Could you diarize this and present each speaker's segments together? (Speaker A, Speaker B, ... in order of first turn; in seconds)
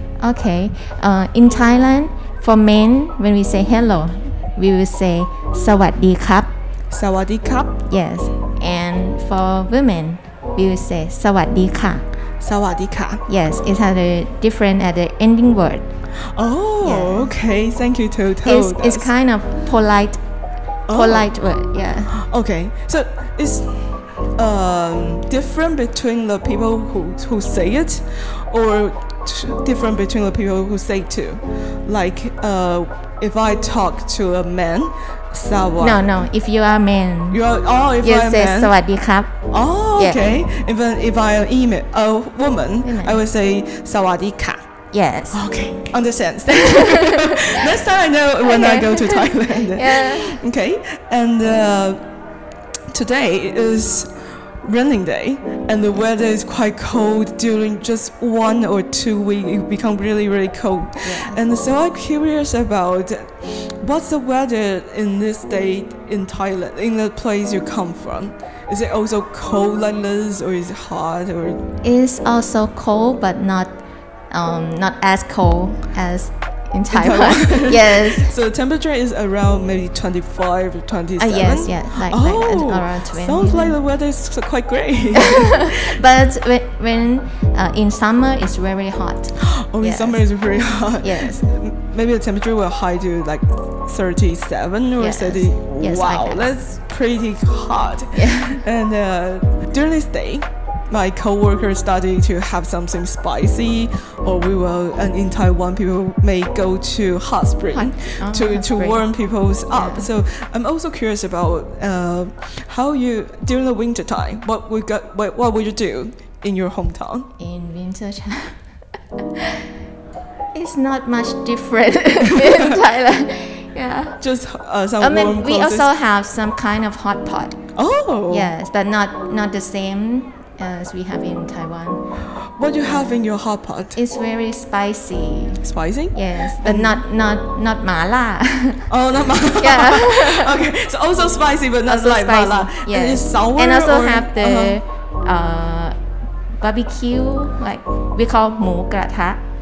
Speaker A: 0.2-6.5, 7.9-12.0, 13.3-15.8, 16.8-17.3, 18.4-20.2, 20.9-22.2, 35.8-37.4, 38.0-39.4, 40.0-40.4, 42.8-43.2, 44.9-45.4, 46.5-47.7, 48.4-50.4, 61.0-61.4, 71.8-73.8, 74.3-78.3, 81.2-83.8, 85.1-90.2, 91.0-91.5, 95.0-96.5, 98.1-98.6, 107.7-109.0, 109.7-110.1, 117.4-118.6, 119.2-119.7, 120.5-124.2, 125.0-127.6, 128.3-132.0, 133.9-138.9, 139.6-140.7, 141.9-145.9, 146.6-149.4
Speaker B: 6.9-7.8, 12.4-13.2, 16.3-19.1, 20.9-21.3, 22.1-36.1, 37.3-38.7, 39.5-44.6, 45.3-52.0, 52.9-71.6, 76.9-86.0, 89.4-117.3, 122.2-122.8, 124.2-125.9, 127.7-128.5, 132.4-134.0, 135.6-137.0, 138.9-144.8